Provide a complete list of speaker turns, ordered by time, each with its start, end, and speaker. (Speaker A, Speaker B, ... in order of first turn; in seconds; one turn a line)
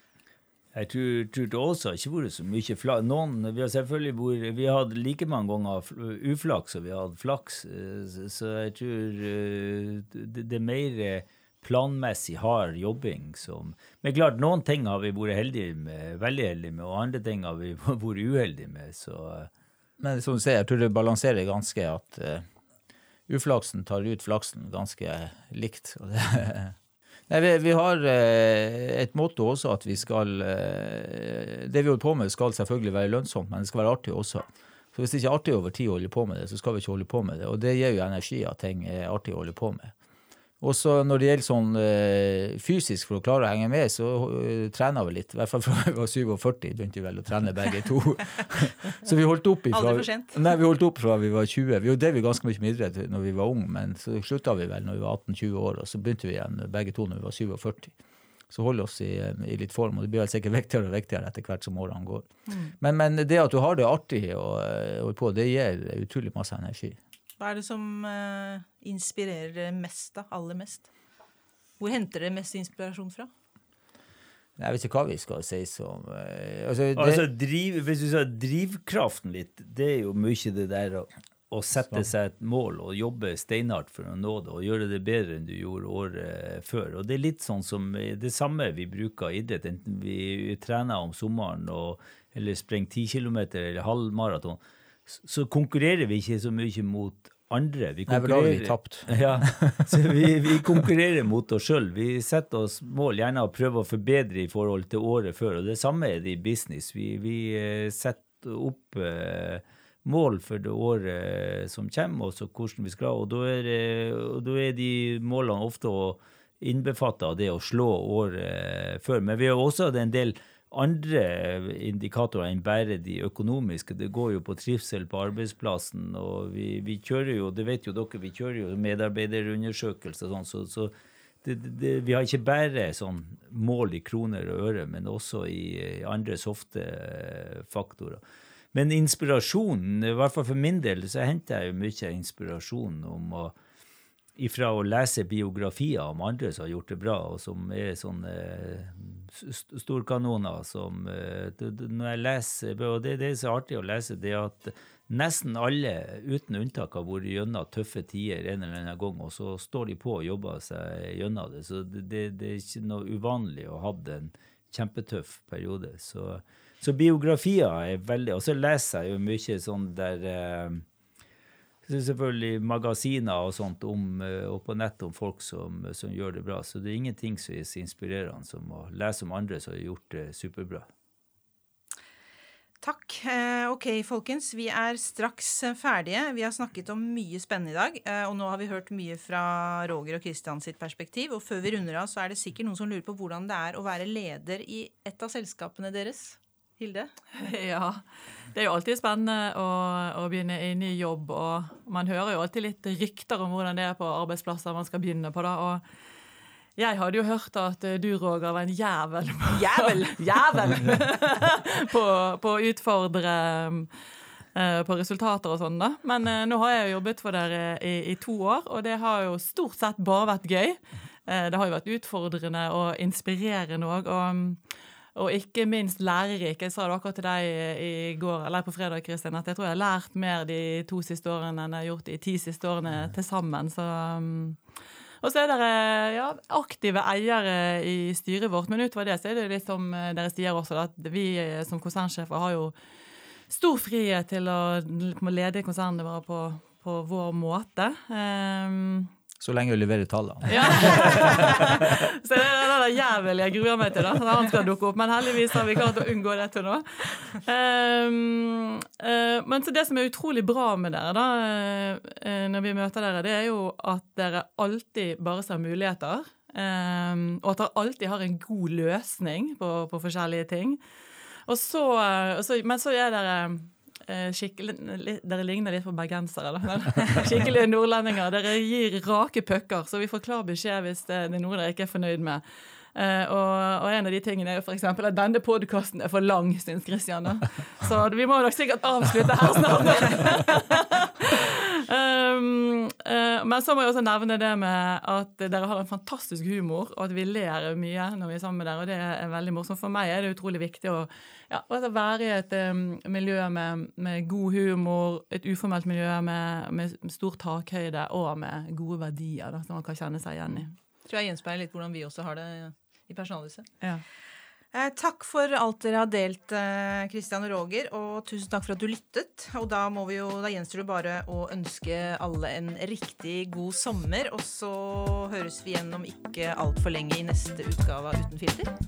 Speaker A: 0.7-19.5
Speaker B: 20.0-22.4
Speaker B: 23.3-26.7
Speaker B: 27.3-39.9
Speaker B: 40.6-57.9
Speaker C: 49.7-50.4
Speaker B: 58.5-62.3
Speaker B: 62.8-67.0
Speaker C: 67.4-70.9
Speaker C: 71.8-73.3
Speaker B: 74.6-77.2
Speaker A: 77.0-130.9
Speaker B: 98.1-99.9
Speaker B: 100.5-100.8
Speaker A: 131.4-138.2
Speaker A: 138.7-143.5
Speaker A: 144.3-170.8
Speaker A: 171.9-180.8
Speaker C: 182.8-197.1
Speaker D: 197.3-205.8
Speaker D: 206.8-213.9
Speaker C: 209.5-211.2
Speaker D: 214.5-234.6
Speaker D: 235.2-242.7
Speaker D: 243.5-249.1
Speaker B: 249.4-251.7
Speaker D: 250.5-270.8
Speaker D: 271.4-282.4
Speaker D: 282.9-310.7
Speaker C: 311.0-313.7
Speaker C: 314.7-328.7